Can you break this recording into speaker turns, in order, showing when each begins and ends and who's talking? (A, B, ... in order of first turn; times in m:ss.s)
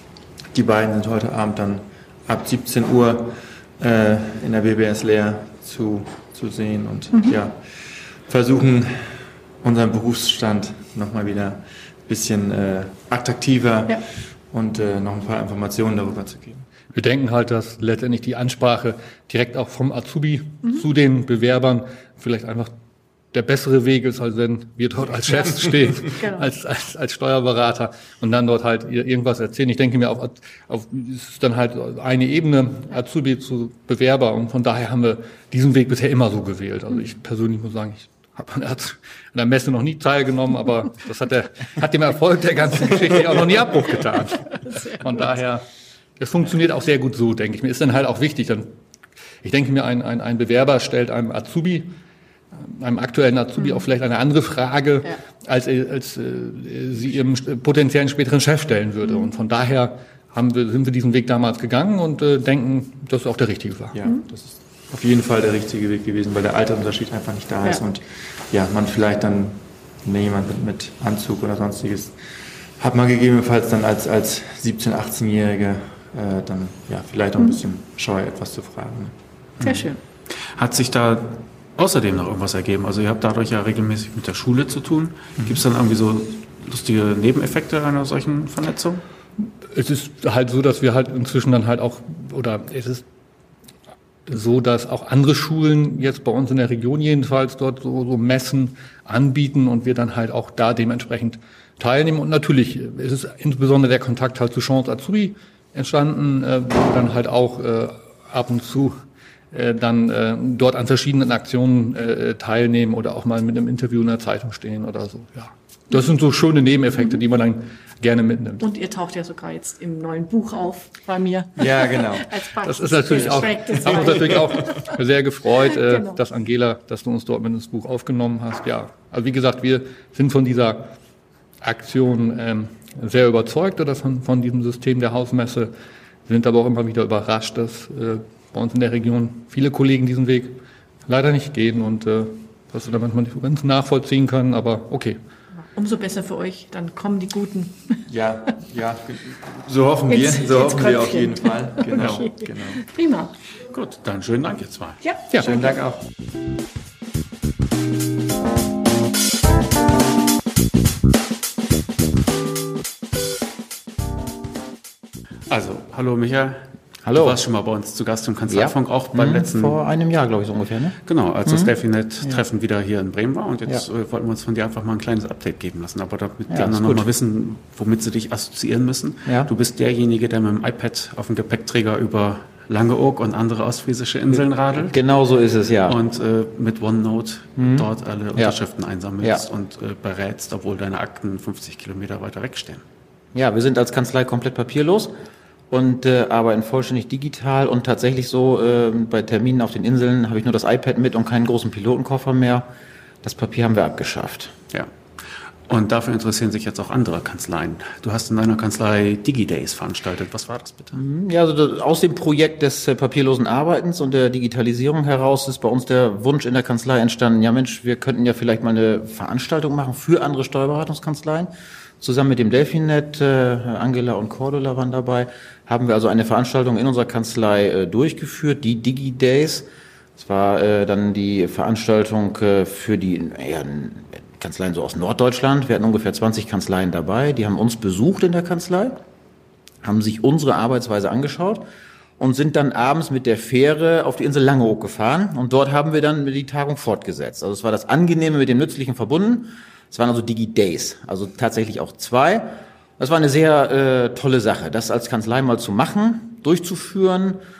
0:00.5-0:16.7 A
0:16.9-0:22.7 B
0:23.3-0:45.6 B
0:26.2-0:26.5 C
0:44.6-0:45.2 C
0:46.2-0:48.7 B
0:49.4-0:51.9 B
0:52.6-1:03.9 B
0:53.6-0:53.8 C
0:59.0-0:59.3 C
1:03.9-1:12.2 A
1:12.8-1:19.2 A
1:17.4-1:17.6 C
1:19.6-1:19.8 D
1:19.6-1:20.0 C
1:20.4-1:29.0 D
1:29.4-1:33.0 B
1:34.3-1:49.0 B
1:49.5-1:58.6 B
1:58.6-2:05.0 C
2:01.6-2:02.3 A
2:02.6-2:10.9 B
2:03.2-2:04.2 A
2:05.6-2:06.2 C
2:11.6-2:15.7 B
2:16.2-2:25.2 B
2:25.7-2:28.0 C
2:28.1-2:32.8 A
2:30.1-2:33.4 C
2:31.9-2:32.2 D
2:33.7-2:35.0 D
2:35.0-2:35.8 C
2:35.3-2:36.0 A
2:45.5-2:49.8 D
2:47.0-2:47.4 E
2:48.5-2:51.7 E
2:51.0-3:05.0 D
2:56.5-2:57.0 E
2:59.2-2:59.5 E
3:04.8-3:06.0 E
3:05.9-3:12.8 D
3:07.6-3:08.6 E
3:13.3-3:15.1 E
3:15.7-3:22.7 E
3:23.2-3:24.5 E
3:25.7-3:31.0 D
3:30.9-3:59.0 E
3:59.8-4:01.6 E
4:02.2-4:17.4 E